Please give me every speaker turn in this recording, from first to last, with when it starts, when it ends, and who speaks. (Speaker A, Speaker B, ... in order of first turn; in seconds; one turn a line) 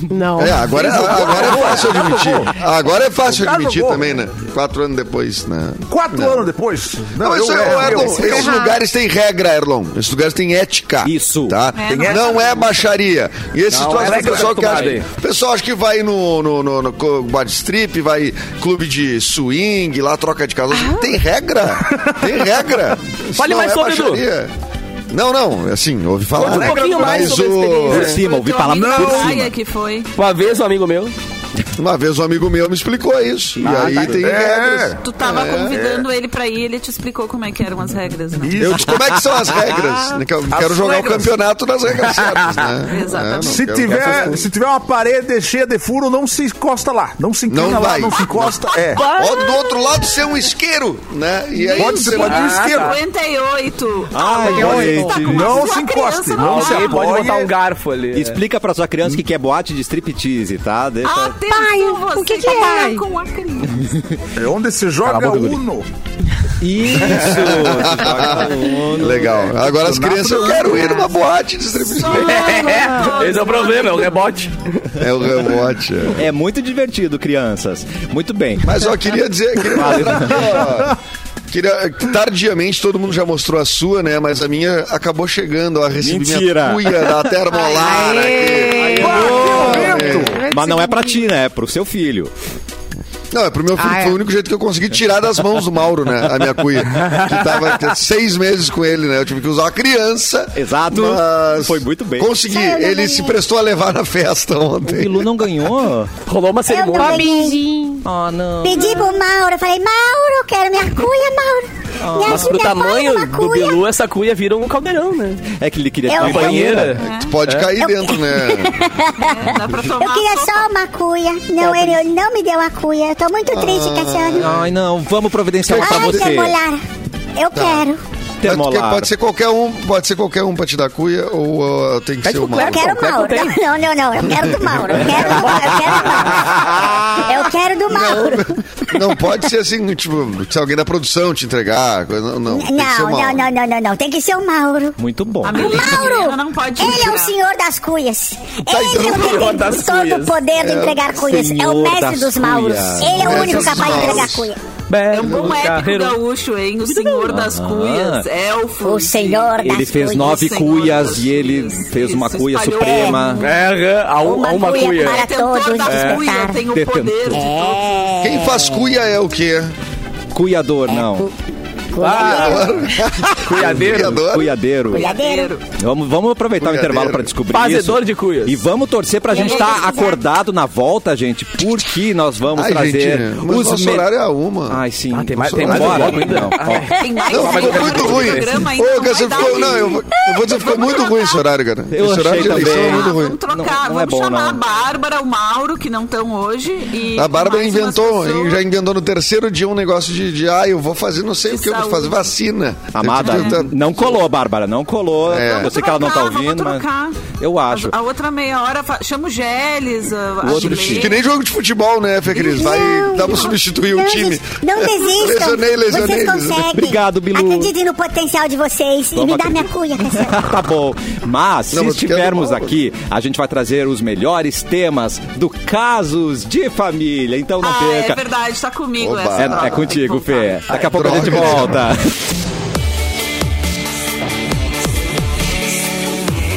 Speaker A: 0.1-0.8
Speaker B: 0.4-6.5
Speaker C: 0.7-2.5
Speaker D: 0.9-2.4
Speaker C: 3.2-4.2
Speaker C: 5.9-8.6
Speaker B: 7.2-24.5
Speaker A: 7.8-8.8
Speaker E: 11.0-11.6
Speaker F: 11.7-12.5
Speaker C: 11.8-12.4
Speaker D: 13.7-15.1
Speaker C: 14.1-14.4
Speaker D: 23.4-24.2
Speaker B: 25.1-28.1
Speaker D: 26.3-28.2
Speaker C: 26.4-27.4
Speaker C: 27.9-29.4
Speaker E: 27.9-29.5
Speaker F: 28.1-30.1
Speaker D: 30.1-31.1
Speaker B: 31.8-36.0
Speaker D: 33.6-34.2
Speaker C: 33.8-35.0
Speaker F: 35.0-38.6
Speaker C: 35.7-36.0
Speaker C: 38.4-39.1
Speaker B: 38.5-44.5
Speaker C: 40.5-41.2
Speaker D: 42.2-42.7
Speaker F: 42.9-44.3
Speaker C: 43.5-49.0
Speaker B: 47.5-52.4
Speaker F: 48.1-49.6
Speaker D: 48.9-49.5
Speaker F: 51.5-57.2
Speaker C: 51.7-53.0
Speaker D: 52.0-53.0
Speaker E: 54.1-55.6
Speaker D: 54.6-55.1
Speaker C: 54.6-57.5
Speaker D: 56.4-58.4
Speaker E: 58.1-61.3
Speaker F: 61.0-63.9
Speaker A: 61.5-63.0
Speaker E: 63.8-64.2
Speaker C: 64.3-65.9
Speaker D: 65.0-65.6
Speaker E: 66.6-69.4
Speaker B: 67.1-72.6
Speaker C: 69.1-70.8
Speaker F: 70.3-71.2
Speaker F: 71.7-74.3
Speaker D: 72.1-74.9
Speaker B: 75.0-76.3
Speaker E: 76.1-78.8
Speaker B: 78.6-81.0
Speaker E: 79.7-80.7
Speaker B: 81.5-90.3
Speaker E: 86.0-87.3
Speaker A: 87.5-91.3
Speaker C: 88.8-90.4
Speaker E: 89.0-92.3
Speaker B: 93.3-105.3
Speaker A: 93.8-94.2
Speaker D: 97.0-97.3
Speaker E: 100.5-102.4
Speaker G: 102.4-103.4
Speaker E: 104.8-106.1
Speaker D: 106.3-107.3
Speaker G: 106.7-107.6
Speaker A: 107.0-108.0
Speaker E: 108.0-109.1
Speaker G: 108.6-113.8
Speaker E: 112.0-112.6
Speaker D: 112.2-115.5
Speaker E: 115.5-117.0
Speaker G: 116.0-116.7
Speaker D: 116.2-117.7
Speaker F: 116.9-117.4
Speaker B: 117.1-118.8
Speaker G: 117.8-124.6
Speaker F: 119.2-120.7
Speaker D: 121.6-122.0
Speaker B: 123.5-124.7
Speaker E: 124.3-126.6
Speaker G: 125.6-126.8
Speaker B: 125.7-126.3
Speaker G: 127.3-128.0
Speaker B: 127.5-127.8
Speaker E: 128.4-129.1
Speaker B: 128.4-133.1
Speaker D: 132.2-133.6
Speaker G: 132.5-139.2
Speaker B: 134.2-135.0
Speaker D: 134.9-136.4
Speaker E: 135.1-137.4
Speaker B: 137.9-143.5
Speaker G: 142.5-154.6
Speaker E: 145.0-145.9
Speaker F: 145.4-147.3
Speaker B: 148.7-149.5
Speaker D: 148.9-150.4
Speaker B: 150.6-151.1
Speaker E: 151.2-153.9
Speaker B: 153.1-154.5
Speaker D: 154.9-156.2
Speaker F: 155.1-163.5
Speaker B: 155.2-155.5
Speaker D: 156.9-157.2
Speaker E: 157.3-158.2
Speaker G: 158.8-160.6
Speaker E: 159.6-163.5
Speaker G: 162.8-163.2
Speaker D: 163.4-165.2
Speaker G: 164.2-166.6
Speaker F: 165.0-168.0
Speaker D: 165.8-166.2
Speaker E: 166.7-167.5
Speaker G: 167.3-168.9
Speaker B: 168.2-169.7
Speaker E: 170.3-171.3
Speaker G: 170.9-171.3
Speaker G: 171.9-172.7
Speaker D: 172.0-172.7
Speaker B: 172.1-174.6
Speaker D: 173.4-174.2
Speaker E: 174.2-175.1
Speaker G: 174.9-175.5
Speaker F: 174.9-175.6
Speaker E: 175.7-184.1
Speaker B: 176.6-177.3
Speaker D: 177.5-178.6
Speaker G: 179.3-180.2
Speaker F: 179.3-180.0
Speaker B: 182.5-184.8
Speaker E: 184.7-187.0
Speaker D: 185.1-188.7
Speaker B: 185.4-186.4
Speaker F: 186.9-191.4
Speaker B: 187.3-193.4
Speaker E: 191.9-194.6
Speaker F: 192.5-198.6
Speaker B: 197.1-204.2
Speaker F: 201.5-202.3
Speaker E: 202.9-207.9
Speaker F: 203.2-203.7
Speaker B: 205.3-205.7
Speaker F: 205.4-211.2
Speaker E: 210.4-211.1
Speaker B: 210.5-216.7
Speaker G: 212.3-220.5
Speaker E: 216.7-217.7
Speaker E: 219.1-228.2
Speaker B: 221.7-222.7
Speaker F: 227.6-231.4
Speaker B: 229.0-229.9
Speaker E: 229.3-232.1
Speaker B: 230.7-231.8